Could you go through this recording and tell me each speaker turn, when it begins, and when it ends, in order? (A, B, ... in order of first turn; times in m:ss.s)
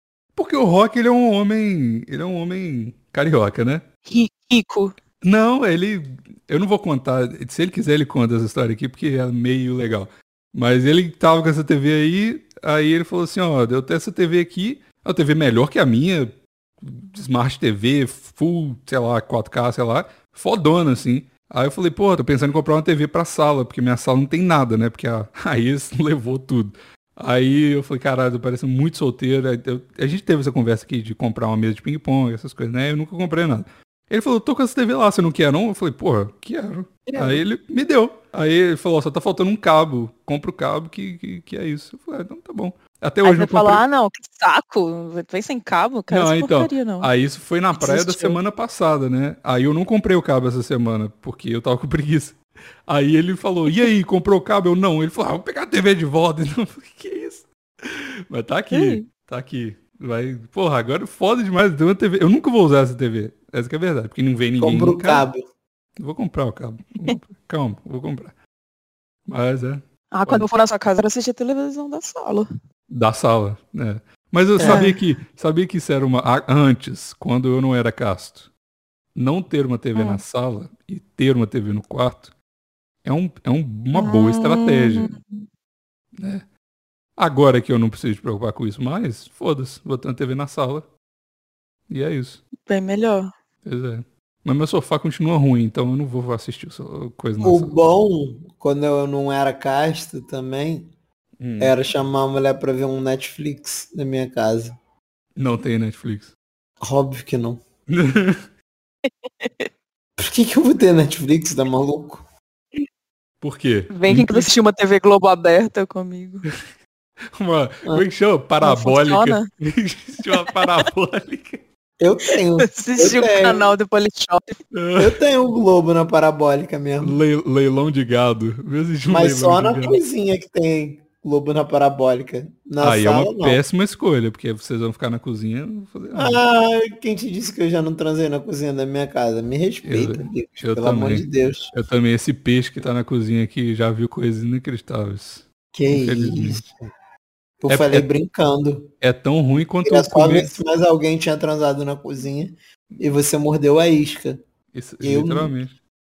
0:00.4-0:03.8 A
0:04.1-0:05.0 B
0:05.2-0:43.8 A
0:37.1-0:37.4 B
0:43.2-0:47.1 B
0:46.1-1:05.3 A
0:47.8-0:48.4 B
0:58.7-0:59.0 B
1:04.6-1:05.4 C
1:06.0-1:08.3 A
1:09.2-1:10.5 A
1:10.1-1:12.5 B
1:12.9-1:18.5 A
1:14.6-1:14.9 C
1:14.6-1:15.0 B
1:19.1-1:22.3 A
1:20.0-1:20.2 B
1:23.0-1:25.1 A
1:23.9-1:25.4 B
1:26.1-1:26.4 A
1:27.2-1:30.9 A
1:31.9-1:32.4 A
1:32.6-1:33.3 B
1:33.6-1:37.8 A
1:37.4-1:40.9 C
1:41.4-1:41.8 A
1:41.6-1:44.7 C
1:45.4-1:46.3 A
1:46.8-1:47.6 C
1:47.9-1:48.4 A
1:49.4-1:49.7 B
1:50.2-1:52.2 C
1:53.4-1:54.5 A
1:53.9-1:56.5 B
1:57.4-2:01.6 A
1:58.6-1:59.4 B
2:00.3-2:00.8 B
2:02.0-2:03.7 C
2:02.6-2:04.6 B
2:04.7-2:05.2 A
2:05.0-2:07.2 C
2:07.0-2:10.0 A
2:09.1-2:13.6 C
2:12.8-2:16.4 A
2:16.1-2:21.7 C
2:19.8-2:26.6 A
2:25.7-2:26.8 C
2:27.6-2:28.9 C
2:27.7-2:28.1 A
2:29.0-2:30.6 A
2:29.8-2:34.4 C
2:34.7-2:35.8 A
2:35.0-2:35.6 C